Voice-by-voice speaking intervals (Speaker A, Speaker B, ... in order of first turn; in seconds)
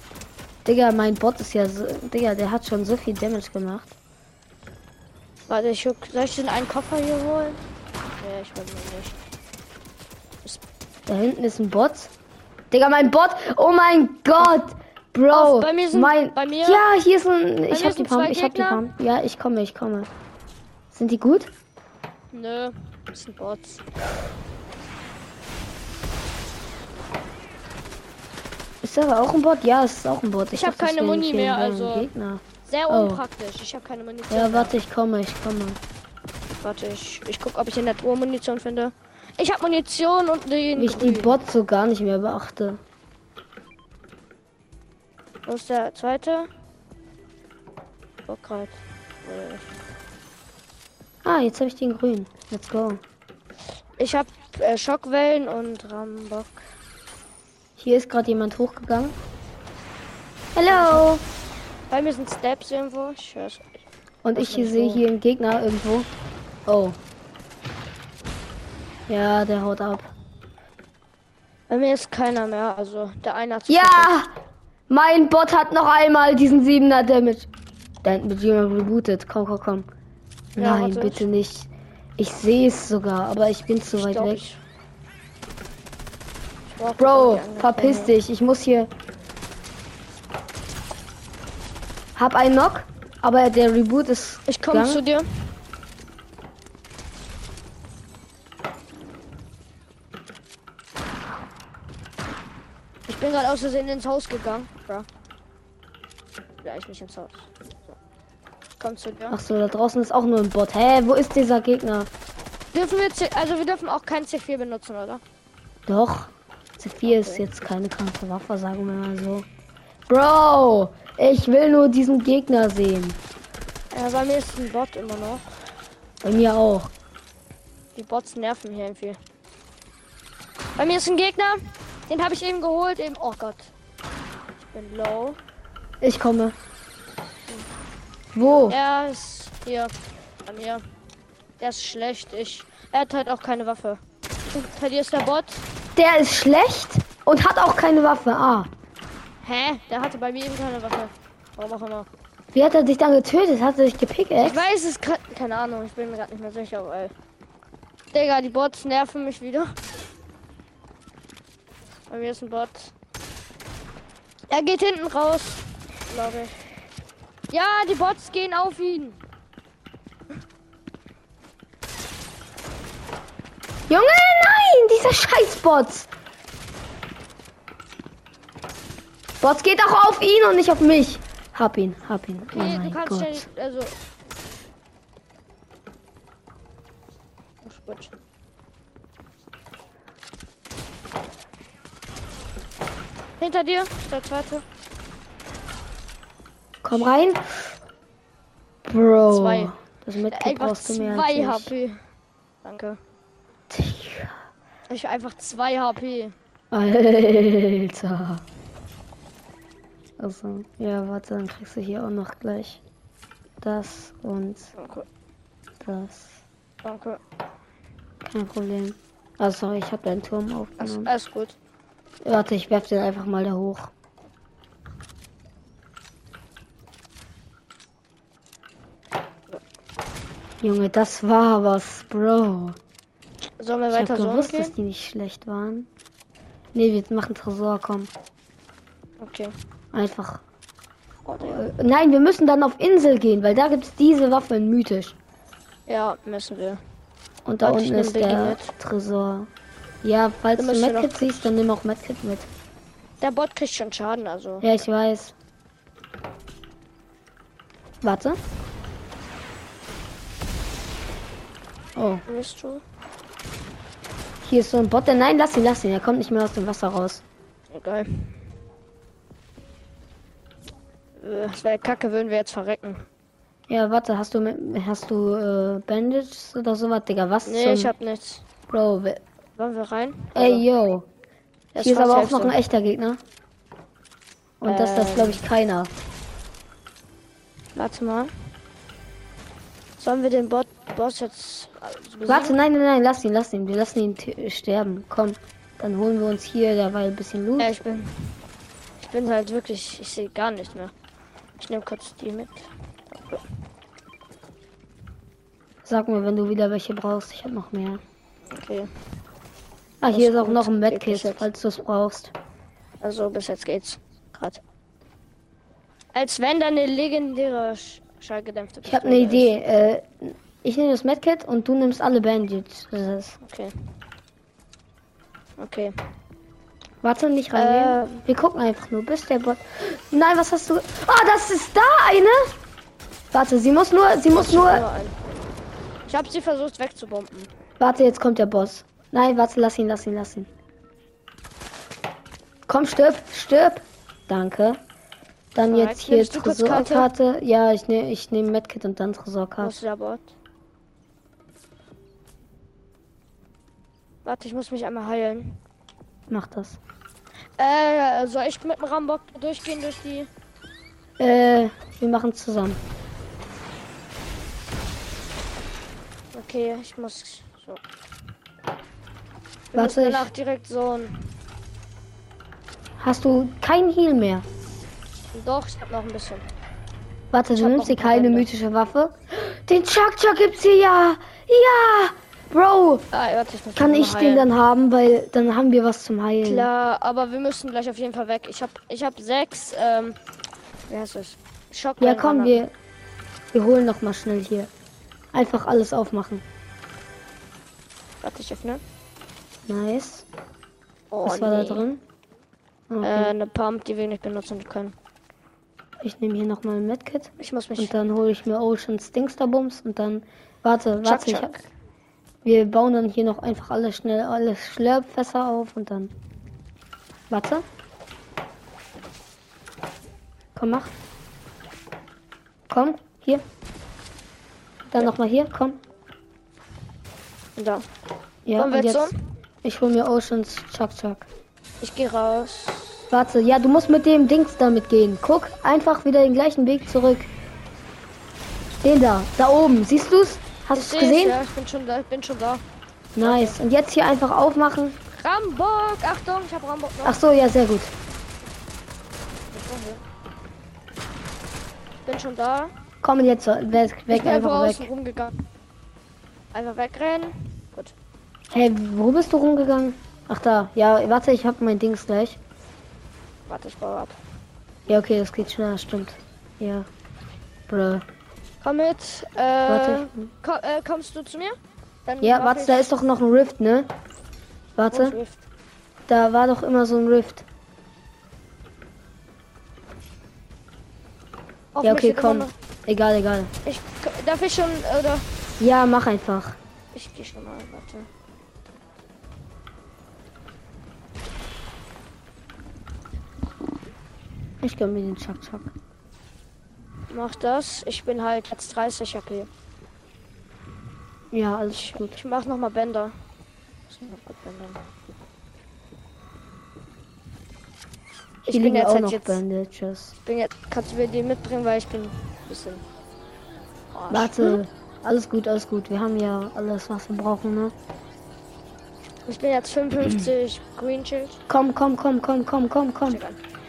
Speaker A: 0.6-3.9, 11.1-12.1, 12.7-20.1, 20.9-21.5, 28.8-33.2, 34.3-35.8, 40.8-42.8, 51.2-53.0, 57.8-59.2, 60.5-61.2, 64.2-66.1, 66.7-67.0, 69.1-70.1, 73.7-74.3, 74.9-77.5, 78.0-79.9, 80.5-84.4, 87.0-88.9, 92.2-95.0, 109.3-112.1, 115.9-119.5, 120.1-123.2, 126.2-126.9, 136.0-136.5, 138.3-138.8, 145.9-148.7, 152.5-154.7, 173.9-176.1, 179.4-183.4, 196.8-197.8, 198.8-201.7, 203.7-204.4, 206.7-208.4, 210.2-212.8, 213.6-214.7, 215.8-216.4, 218.2-221.1, 222.2-223.9, 230.6-232.8, 233.9-235.9, 236.7-238.1, 239.9-240.4, 241.4-245.2, 247.4-249.5, 250.0-252.5, 254.6-255.3, 258.0-258.4, 261.9-262.2, 264.4-267.2, 273.7-277.9, 278.7-279.2, 280.3-281.1, 281.7-283.2, 284.6-285.9, 292.3-297.8, 305.8-308.0, 310.0-312.3, 318.8-323.4, 327.0-332.5, 333.3-334.8, 337.8-340.5, 342.7-344.8, 345.5-349.7, 356.3-356.8, 361.2-362.8, 369.7-370.3, 373.0-374.4, 377.3-383.0, 383.7-386.7, 392.0-392.7, 393.5-394.7, 395.3-396.4, 399.7-400.2, 401.2-402.0, 402.9-403.3, 406.0-411.5, 412.4-416.1, 417.3-417.6, 420.6-420.9, 422.7-423.4, 424.9-425.8, 428.4-429.1, 429.6-431.3, 433.1-437.3, 438.8-441.4, 443.1-445.0, 447.0-447.9, 453.0-454.9, 458.5-462.4, 464.9-466.9, 467.7-468.0, 469.7-470.3, 472.2-473.9, 474.8-475.2, 476.1-477.4, 481.8-483.5, 485.6-486.6, 494.6-495.7, 501.3-502.2, 508.4-510.1, 514.1-517.7, 521.5-523.2
Speaker B: 5.5-7.6, 8.2-9.2, 15.3-16.8, 17.7-18.8, 22.3-23.8, 30.5-32.1, 32.6-34.7, 36.6-41.4, 45.4-46.5, 48.3-49.7, 54.0-56.7, 60.7-61.2, 61.9-63.8, 64.3-65.0, 71.7-74.2, 80.6-81.3, 84.0-84.6, 86.8-88.1, 94.5-95.5, 103.1-105.1, 106.6-108.0, 108.8-109.4, 112.7-115.2, 117.0-117.4, 123.9-125.5, 127.9-129.2, 130.8-133.7, 134.6-135.4, 138.7-139.9, 140.4-140.8, 141.6-145.6, 149.4-152.1, 154.4-157.1, 158.1-159.8, 162.1-162.9, 164.5-166.7, 167.5-169.2, 182.5-183.9, 187.6-188.1, 193.4-194.6, 199.3-199.7, 200.3-202.0, 202.6-203.0, 204.9-206.3, 214.7-215.1, 216.8-217.2, 220.8-221.5, 233.6-234.7, 239.2-239.5, 241.2-241.6, 245.9-246.8, 247.6-248.7, 250.6-251.3, 253.2-254.6, 262.3-262.8, 267.7-268.4, 271.2-273.1, 277.4-278.4, 279.6-280.6, 281.8-282.6, 284.6-285.4, 287.8-288.5, 290.0-292.6, 297.6-298.4, 299.0-300.9, 301.6-303.4, 308.5-308.9, 310.1-311.4, 313.0-314.6, 316.1-319.5, 323.4-323.9, 325.6-326.0, 327.5-328.2, 334.3-335.2, 336.1-337.5, 345.7-347.1, 349.6-350.3, 354.2-355.6, 357.6-360.3, 366.3-367.8, 369.7-371.4, 375.3-376.5, 377.6-378.5, 383.1-384.5, 386.4-390.2, 390.9-392.6, 398.2-398.8, 401.1-401.9, 403.0-404.9, 407.4-407.9, 411.0-411.6, 427.6-427.9, 428.6-429.1, 431.8-433.1, 440.7-442.6, 443.2-443.6, 445.2-447.2, 449.5-450.0, 452.0-452.7, 454.1-455.4, 456.5-457.9, 463.5-464.2, 468.6-472.9, 474.9-475.4, 481.7-482.5, 483.6-485.3, 486.9-488.1, 497.1-499.5, 501.7-503.2, 503.9-504.9, 508.4-509.4, 510.2-512.9, 513.9-514.6, 519.2-521.4, 523.1-523.4